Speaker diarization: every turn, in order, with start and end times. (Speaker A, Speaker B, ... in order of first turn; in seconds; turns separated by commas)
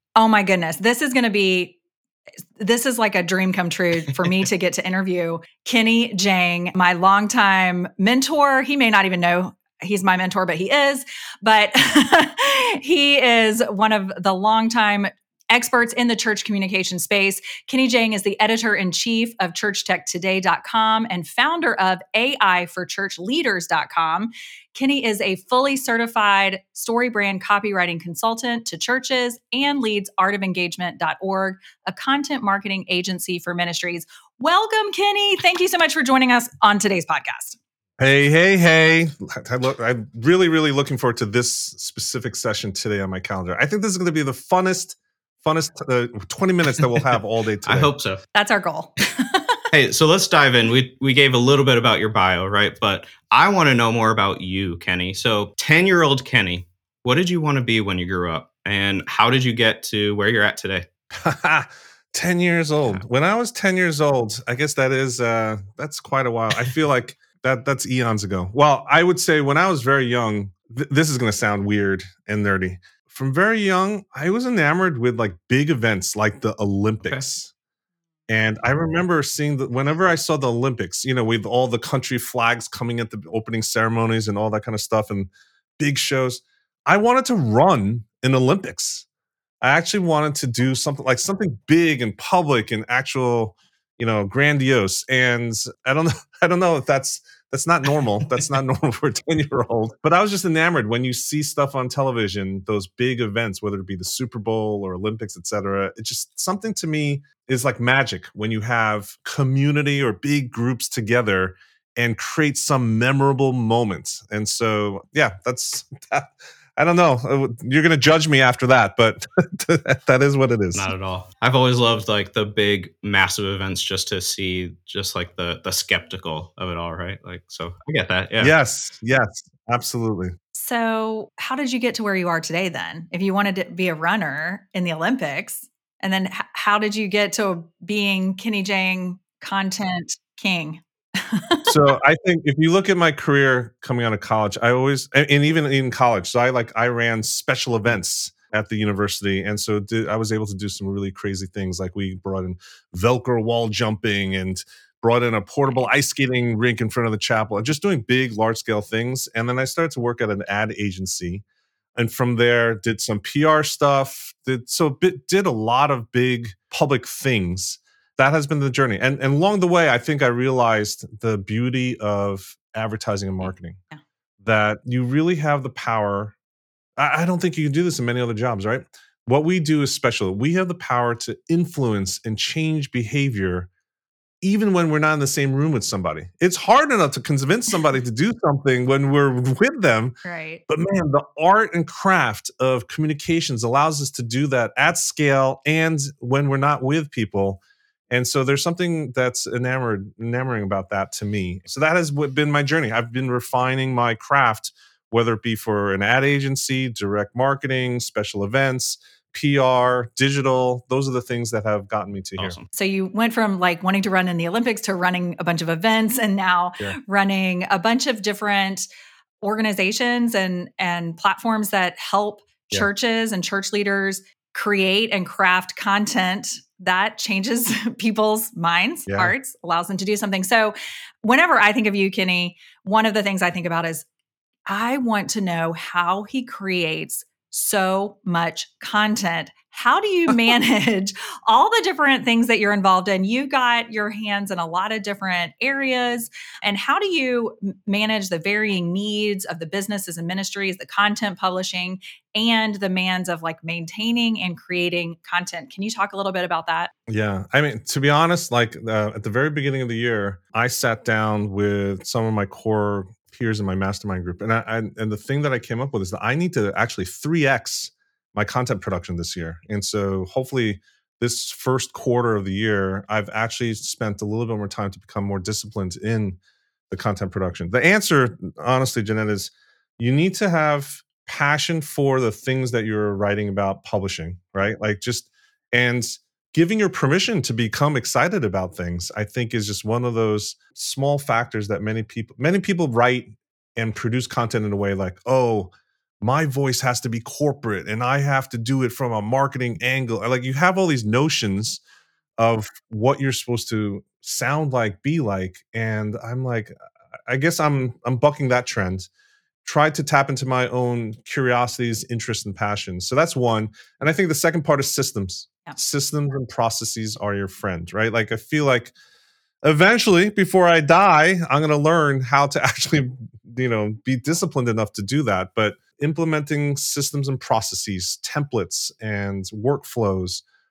Speaker A: 0.1-1.8, Speaker A: 2.6-37.6, Speaker B: 38.0-47.9, Speaker C: 47.6-48.2, Speaker A: 48.3-49.6, Speaker C: 49.7-60.9, Speaker B: 61.1-77.5, Speaker B: 78.3-89.0, Speaker B: 89.6-120.9, Speaker C: 120.7-128.5, Speaker B: 128.4-130.3, Speaker A: 130.5-141.7, Speaker B: 141.7-161.4, Speaker B: 161.9-173.8, Speaker B: 174.4-176.3, Speaker B: 177.0-183.7, Speaker B: 184.4-190.2, Speaker A: 190.2-190.6, Speaker B: 190.7-212.6, Speaker C: 212.4-212.7, Speaker A: 212.7-218.9, Speaker A: 219.4-234.0, Speaker B: 229.1-229.3, Speaker A: 234.7-256.9, Speaker B: 257.1-276.4, Speaker B: 276.9-301.8, Speaker B: 302.4-306.7, Speaker B: 307.3-309.1, Speaker B: 309.6-318.9, Speaker B: 319.6-330.4